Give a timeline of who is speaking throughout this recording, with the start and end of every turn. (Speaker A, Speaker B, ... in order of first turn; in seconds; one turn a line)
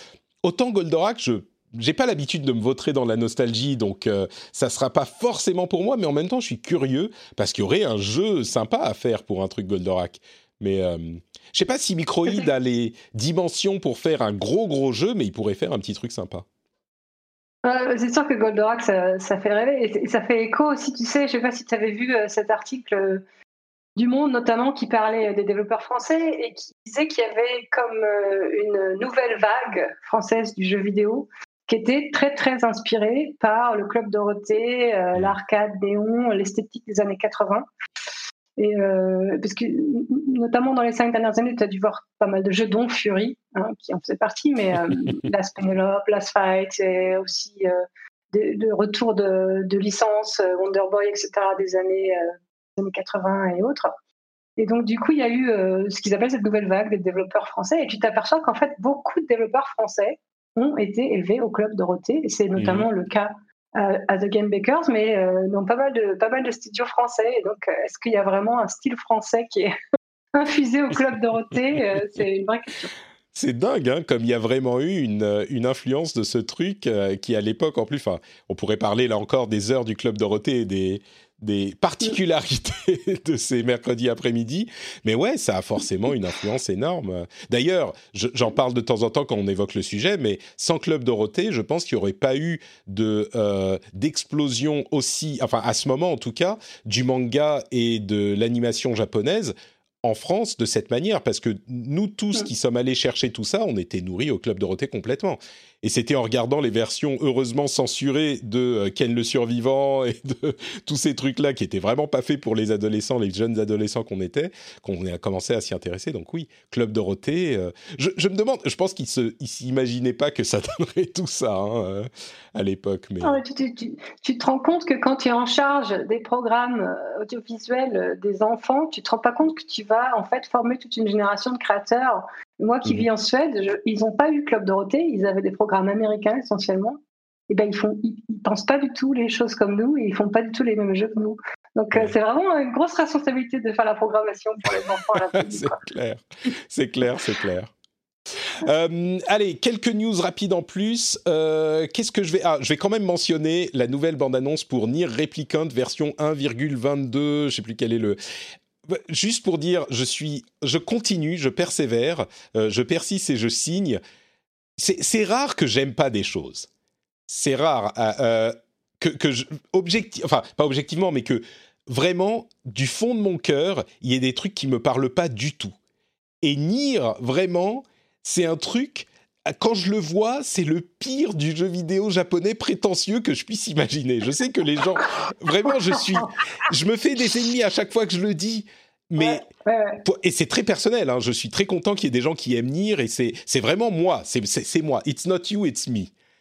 Speaker A: 0.4-16.4
Speaker B: 17.6-23.2
Speaker B: 23.9-37.6
Speaker B: 38.6-53.9
Speaker B: 54.6-69.7
Speaker A: 62.6-62.9
Speaker B: 70.3-72.9
Speaker A: 73.3-123.4
Speaker B: 123.2-145.8
Speaker A: 145.3-147.7
Speaker A: 148.6-158.2
Speaker A: 158.9-164.0
Speaker A: 164.8-166.7
Speaker A: 167.3-175.8
Speaker A: 176.4-189.4
Speaker B: 189.2-190.0
Speaker A: 190.0-196.1